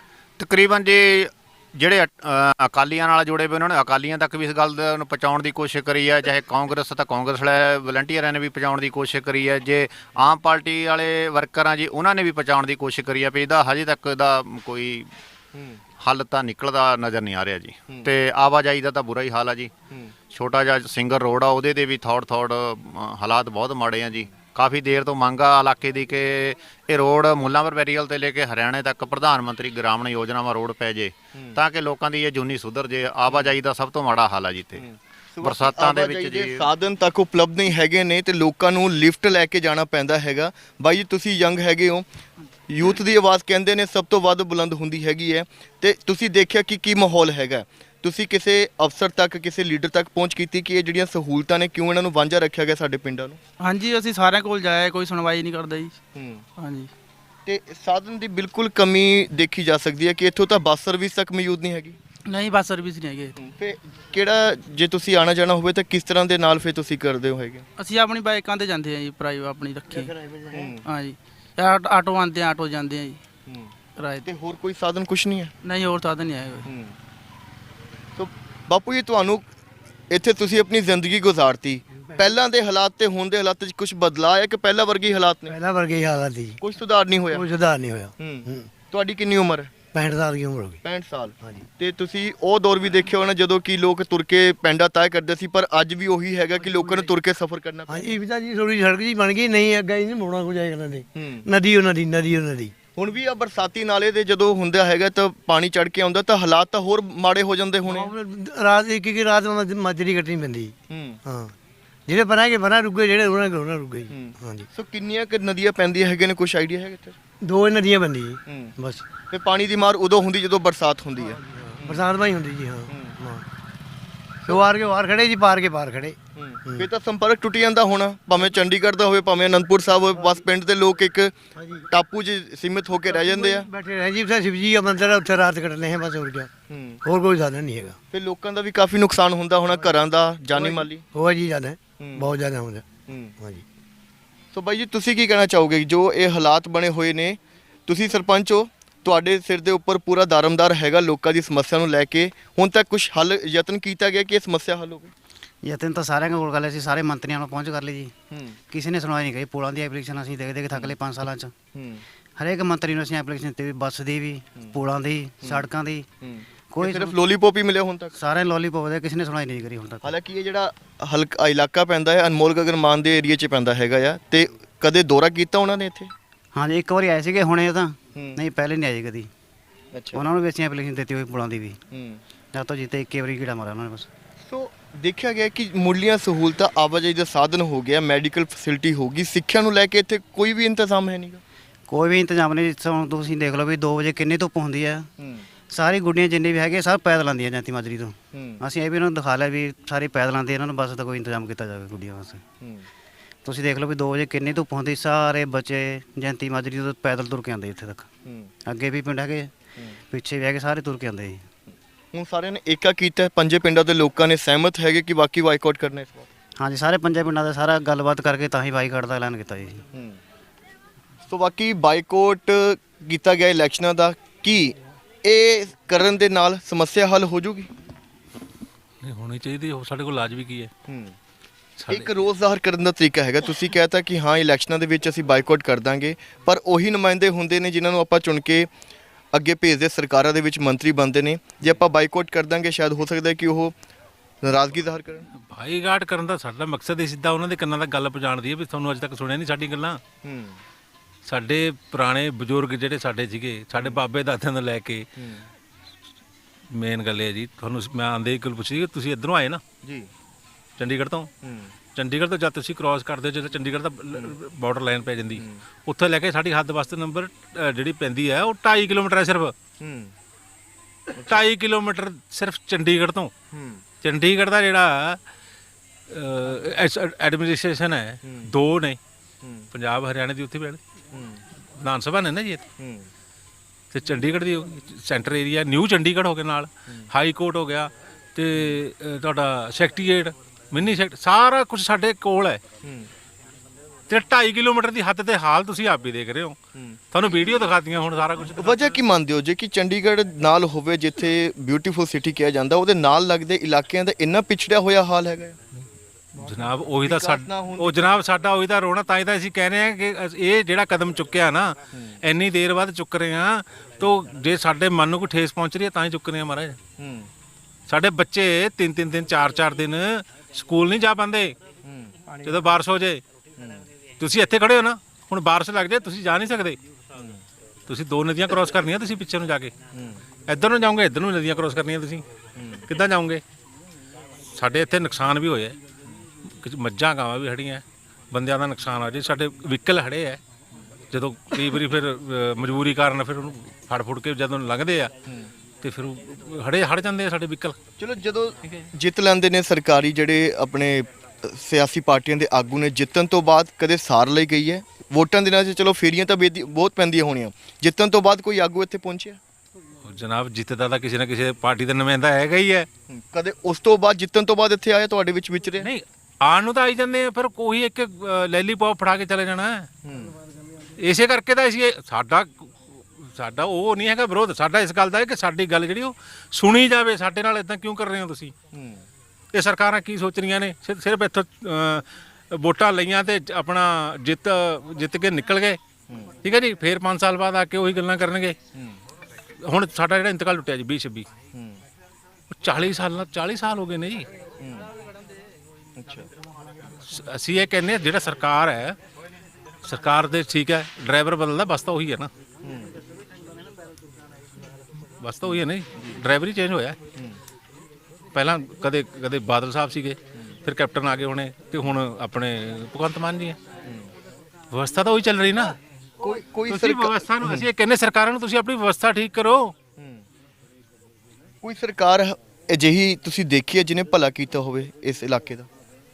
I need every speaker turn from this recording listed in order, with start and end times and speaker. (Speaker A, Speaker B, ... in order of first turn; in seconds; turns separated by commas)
Speaker A: 0.4-15.1, Speaker B: 15.5-15.8, Speaker A: 16.0-19.7, Speaker A: 20.3-34.8, Speaker B: 34.8-42.0, Speaker A: 35.4-36.7, Speaker B: 42.7-53.4, Speaker C: 53.6-56.0, Speaker B: 56.1-56.4, Speaker C: 56.6-56.9, Speaker B: 57.5-62.0, Speaker C: 62.3-63.3, Speaker B: 63.4-67.6, Speaker C: 67.8-70.1, Speaker D: 70.0-70.6, Speaker B: 70.5-70.8, Speaker C: 70.8-73.2, Speaker C: 74.0-74.3, Speaker B: 74.2-75.5, Speaker C: 75.6-76.7, Speaker B: 76.7-77.0, Speaker B: 78.2-79.5, Speaker B: 80.1-85.5, Speaker D: 85.5-86.6, Speaker B: 86.6-87.4, Speaker D: 87.3-88.7, Speaker B: 88.2-89.7, Speaker D: 89.9-90.8, Speaker B: 90.8-98.1, Speaker D: 96.7-97.1, Speaker D: 97.9-102.7, Speaker B: 101.2-101.4, Speaker B: 103.0-108.1, Speaker D: 107.8-110.7, Speaker B: 110.9-111.2, Speaker D: 111.2-111.5, Speaker D: 112.1-114.7, Speaker B: 114.1-117.2, Speaker D: 117.4-119.0, Speaker B: 119.3-122.0, Speaker D: 121.8-123.4, Speaker D: 124.5-126.9, Speaker B: 126.4-131.3, Speaker D: 131.6-131.8, Speaker B: 131.9-133.7, Speaker D: 133.1-136.5, Speaker B: 136.7-137.0, Speaker D: 137.0-138.0, Speaker B: 138.1-141.0, Speaker D: 140.5-142.8, Speaker B: 142.0-142.3, Speaker B: 144.5-155.1, Speaker E: 155.6-158.1, Speaker B: 158.3-158.6, Speaker E: 158.7-161.5, Speaker B: 161.7-162.0, Speaker E: 162.4-166.1, Speaker B: 166.2-168.2, Speaker E: 166.7-167.2, Speaker E: 168.1-170.1, Speaker B: 170.0-176.1, Speaker E: 176.5-179.3, Speaker B: 179.9-180.2, Speaker E: 180.1-181.8, Speaker B: 181.9-182.2, Speaker E: 182.5-184.1, Speaker B: 184.4-191.4, Speaker E: 191.9-195.1, Speaker B: 195.2-195.4, Speaker E: 195.7-202.4, Speaker B: 198.3-198.6, Speaker E: 203.4-208.1, Speaker E: 208.7-209.5, Speaker E: 210.1-211.4, Speaker B: 212.1-216.3, Speaker E: 216.6-219.8, Speaker B: 221.3-227.7, Speaker F: 229.0-230.7, Speaker B: 230.9-231.1, Speaker F: 231.8-232.2, Speaker B: 231.9-238.7, Speaker B: 239.3-243.7, Speaker B: 244.4-245.3, Speaker F: 245.5-250.0, Speaker B: 250.2-250.6, Speaker F: 251.2-255.1, Speaker B: 255.2-255.5, Speaker F: 256.7-259.6, Speaker B: 259.8-260.1, Speaker F: 260.8-261.3, Speaker B: 261.4-261.7, Speaker F: 261.9-269.5, Speaker B: 265.4-265.6, Speaker B: 269.8-270.1, Speaker F: 271.2-273.3, Speaker B: 273.5-273.8, Speaker F: 274.0-275.2, Speaker F: 276.1-279.0, Speaker B: 278.2-278.5, Speaker B: 279.4-279.7, Speaker F: 279.7-280.8, Speaker B: 281.1-281.4, Speaker F: 281.8-282.6, Speaker B: 282.8-283.1, Speaker F: 283.9-292.6, Speaker B: 288.5-288.8, Speaker B: 292.8-293.1, Speaker F: 294.1-296.6, Speaker F: 297.1-298.9, Speaker B: 298.6-305.6, Speaker F: 306.4-316.8, Speaker B: 307.0-308.1, Speaker B: 317.0-317.3, Speaker F: 317.9-321.6, Speaker B: 321.9-322.1, Speaker F: 322.4-323.2, Speaker B: 323.6-323.8, Speaker F: 324.2-326.8, Speaker B: 327.1-327.4, Speaker F: 327.9-329.7, Speaker B: 329.9-330.2, Speaker F: 330.5-332.2, Speaker B: 332.6-332.9, Speaker F: 332.9-333.4, Speaker F: 334.5-335.8, Speaker F: 336.6-340.4, Speaker F: 341.1-345.1, Speaker F: 345.8-347.8, Speaker B: 348.0-359.4, Speaker F: 360.0-362.9, Speaker B: 363.1-365.9, Speaker F: 365.8-369.9, Speaker B: 370.0-370.4, Speaker F: 371.0-378.5, Speaker B: 378.7-379.0, Speaker F: 379.5-385.8, Speaker F: 386.4-388.6, Speaker F: 389.6-391.2, Speaker B: 391.5-391.8, Speaker F: 392.5-394.3, Speaker B: 394.6-394.9, Speaker B: 396.0-396.3, Speaker F: 397.1-399.0, Speaker F: 399.8-402.3, Speaker B: 402.6-402.9, Speaker F: 405.2-407.0, Speaker B: 405.4-406.2, Speaker F: 408.3-413.6, Speaker F: 414.7-415.8, Speaker B: 416.2-417.7, Speaker F: 416.7-419.7, Speaker B: 420.0-420.2, Speaker B: 421.6-425.7